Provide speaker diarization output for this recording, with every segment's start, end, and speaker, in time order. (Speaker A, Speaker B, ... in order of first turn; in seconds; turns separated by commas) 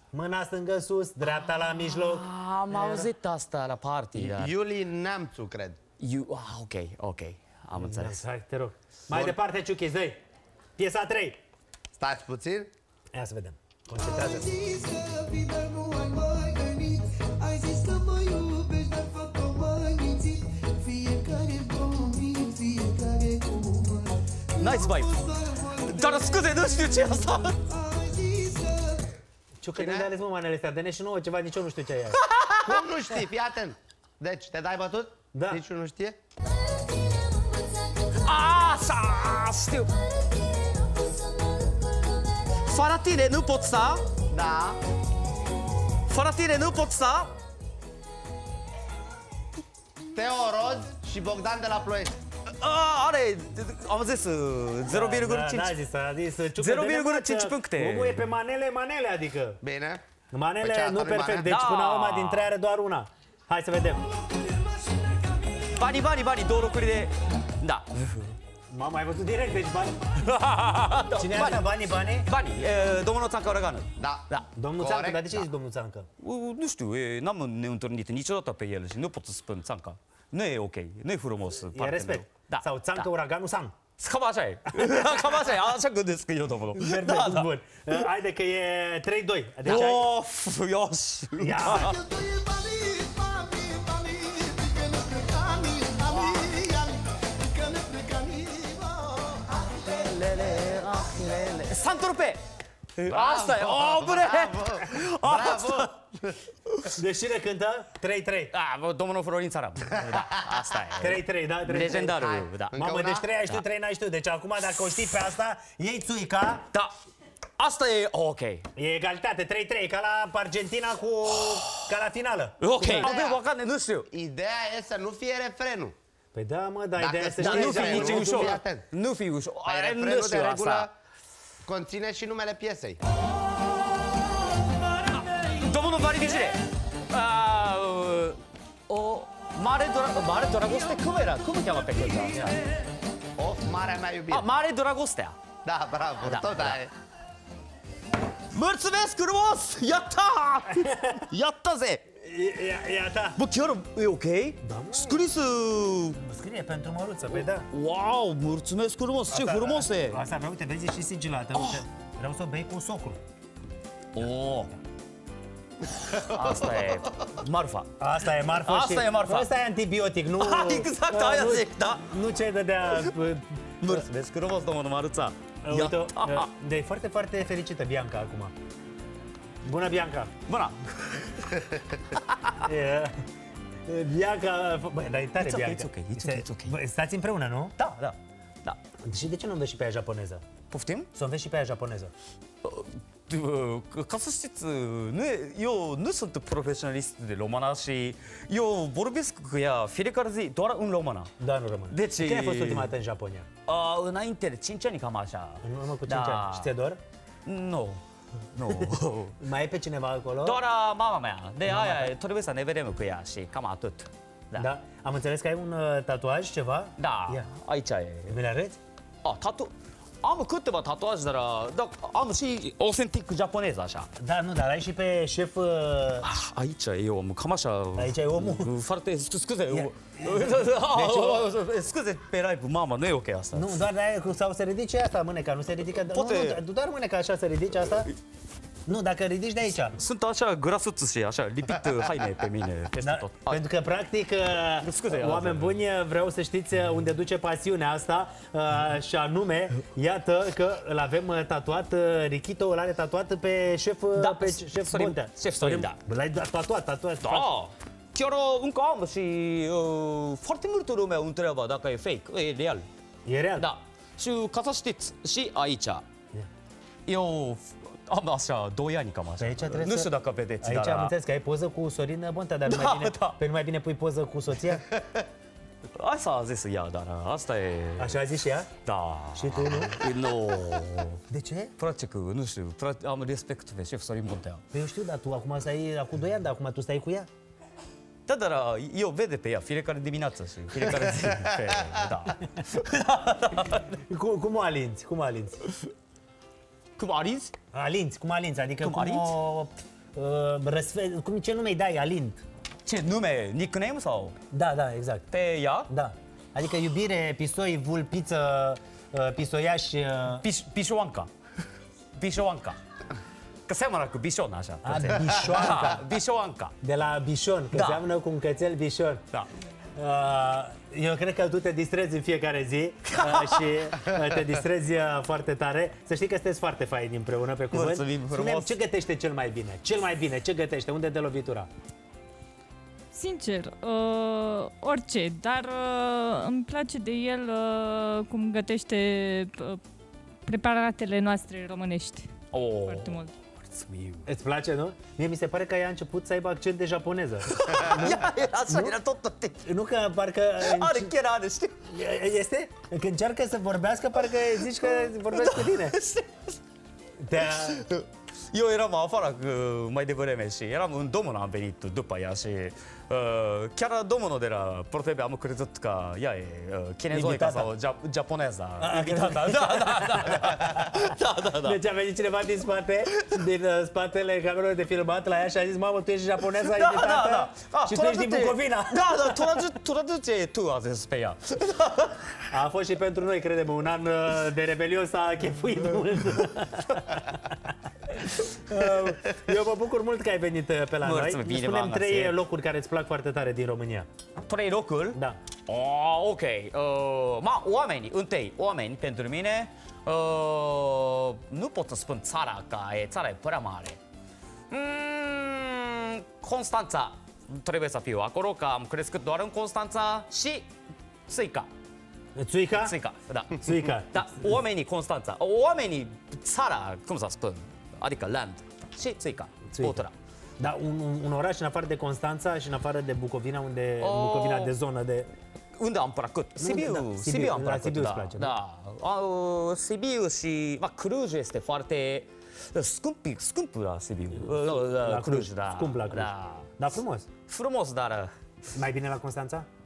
Speaker A: 0.1-3.0, Speaker B: 1.9-4.6, Speaker C: 4.1-5.8, Speaker B: 6.0-8.2, Speaker A: 7.8-10.2, Speaker A: 10.8-11.4, Speaker C: 11.9-12.7, Speaker A: 13.1-14.5, Speaker D: 13.9-29.1, Speaker B: 24.6-25.1, Speaker B: 25.9-27.6, Speaker A: 29.6-32.2, Speaker C: 29.8-30.1, Speaker B: 32.2-32.8, Speaker C: 32.6-36.2, Speaker A: 35.3-35.6, Speaker B: 38.2-39.9, Speaker B: 42.6-44.0, Speaker C: 44.3-44.8, Speaker B: 46.1-47.3, Speaker C: 50.1-52.2, Speaker B: 52.6-55.8, Speaker A: 54.9-59.6, Speaker B: 56.6-58.2, Speaker C: 59.6-60.0, Speaker A: 60.3-64.1, Speaker C: 60.6-61.4, Speaker B: 61.3-62.5, Speaker B: 65.7-68.3, Speaker A: 68.7-70.1, Speaker B: 70.1-74.5, Speaker A: 71.1-72.3, Speaker C: 74.0-75.4, Speaker A: 74.6-76.1, Speaker B: 76.2-83.0, Speaker A: 81.7-83.7, Speaker B: 84.0-87.5, Speaker A: 84.8-85.2, Speaker A: 86.7-90.1, Speaker B: 89.6-92.0, Speaker A: 91.4-92.0, Speaker D: 91.6-101.5, Speaker B: 100.0-102.4, Speaker B: 103.0-106.1, Speaker C: 103.1-106.3, Speaker B: 106.7-106.9, Speaker A: 106.8-108.5, Speaker B: 108.5-112.8, Speaker A: 110.9-116.7, Speaker C: 112.0-113.2, Speaker B: 117.6-118.7, Speaker A: 118.8-123.2, Speaker B: 121.4-121.9, Speaker B: 122.6-124.1, Speaker C: 122.9-123.4, Speaker C: 124.1-125.9, Speaker A: 126.3-128.6, Speaker C: 127.0-128.8, Speaker B: 127.4-130.9, Speaker C: 129.7-130.9, Speaker C: 131.6-133.0, Speaker B: 135.5-142.6, Speaker C: 143.4-144.5, Speaker B: 144.3-145.4, Speaker C: 145.6-146.9, Speaker B: 146.2-146.8, Speaker B: 148.5-152.0, Speaker A: 150.8-151.2, Speaker A: 152.2-153.4, Speaker B: 153.3-156.2, Speaker A: 154.6-155.2, Speaker A: 156.2-157.7, Speaker B: 157.7-160.2, Speaker A: 159.3-163.2, Speaker B: 161.6-161.8, Speaker B: 164.1-164.7, Speaker B: 165.9-167.9, Speaker A: 168.0-174.0, Speaker B: 168.5-169.5, Speaker B: 170.4-172.1, Speaker B: 173.8-176.5, Speaker A: 175.6-178.5, Speaker A: 179.6-180.4, Speaker B: 180.4-182.6, Speaker A: 182.6-183.2, Speaker A: 183.8-187.7, Speaker B: 185.4-186.8, Speaker B: 187.8-188.8, Speaker A: 189.0-190.4, Speaker B: 190.7-191.1, Speaker A: 191.1-192.1, Speaker B: 192.6-201.3, Speaker A: 201.4-203.5, Speaker B: 201.9-202.9, Speaker B: 203.7-206.7, Speaker A: 205.6-207.0, Speaker B: 207.4-208.0, Speaker B: 208.5-209.4, Speaker A: 208.7-210.6, Speaker B: 210.4-214.7, Speaker A: 211.7-212.1, Speaker A: 214.6-217.5, Speaker B: 217.0-218.4, Speaker A: 218.3-218.8, Speaker B: 219.2-224.1, Speaker A: 224.2-226.3, Speaker B: 226.2-233.8, Speaker A: 227.9-228.7, Speaker A: 229.7-231.5, Speaker A: 233.5-238.1, Speaker B: 235.9-236.6, Speaker A: 238.8-240.0, Speaker B: 239.9-243.7, Speaker A: 243.0-257.5, Speaker B: 244.8-245.8, Speaker B: 254.1-256.0, Speaker B: 257.2-262.9, Speaker A: 263.2-263.7, Speaker B: 263.6-266.0, Speaker B: 267.1-271.1, Speaker A: 269.4-274.9, Speaker B: 272.7-273.4, Speaker B: 275.9-278.2, Speaker A: 278.0-278.7, Speaker B: 278.8-281.2, Speaker A: 279.3-280.0, Speaker A: 281.3-281.7, Speaker B: 281.8-284.6, Speaker A: 284.7-287.3, Speaker B: 288.3-294.0, Speaker A: 294.0-295.6, Speaker B: 297.0-297.5, Speaker A: 297.7-302.4, Speaker B: 298.8-299.4, Speaker B: 302.8-304.4, Speaker A: 304.5-305.3, Speaker B: 305.3-305.9, Speaker A: 305.9-310.4, Speaker B: 310.4-311.3, Speaker B: 312.1-312.8, Speaker B: 313.7-316.7, Speaker A: 314.8-316.1, Speaker A: 316.8-319.2, Speaker B: 317.7-318.0, Speaker A: 319.9-331.7, Speaker B: 323.1-323.8, Speaker B: 327.7-328.8, Speaker E: 333.1-339.8, Speaker E: 340.4-342.3, Speaker B: 342.5-344.3, Speaker E: 342.8-343.4, Speaker A: 344.2-349.0, Speaker B: 347.5-349.7, Speaker A: 349.6-351.1, Speaker B: 350.6-351.9, Speaker A: 351.9-356.0, Speaker B: 355.2-356.6, Speaker A: 357.2-357.9, Speaker B: 357.5-371.8, Speaker A: 367.1-367.7, Speaker A: 368.8-379.7, Speaker B: 376.6-382.3, Speaker A: 382.5-394.1, Speaker B: 391.0-392.4, Speaker B: 394.4-404.0, Speaker B: 404.7-410.7, Speaker B: 411.3-411.7, Speaker A: 412.4-412.9, Speaker B: 412.8-420.1, Speaker A: 413.6-414.2, Speaker A: 419.7-420.0, Speaker A: 420.6-425.3, Speaker B: 424.0-424.7, Speaker B: 425.8-436.7, Speaker A: 426.6-428.6, Speaker A: 434.8-437.3, Speaker B: 437.5-438.3, Speaker A: 438.7-439.7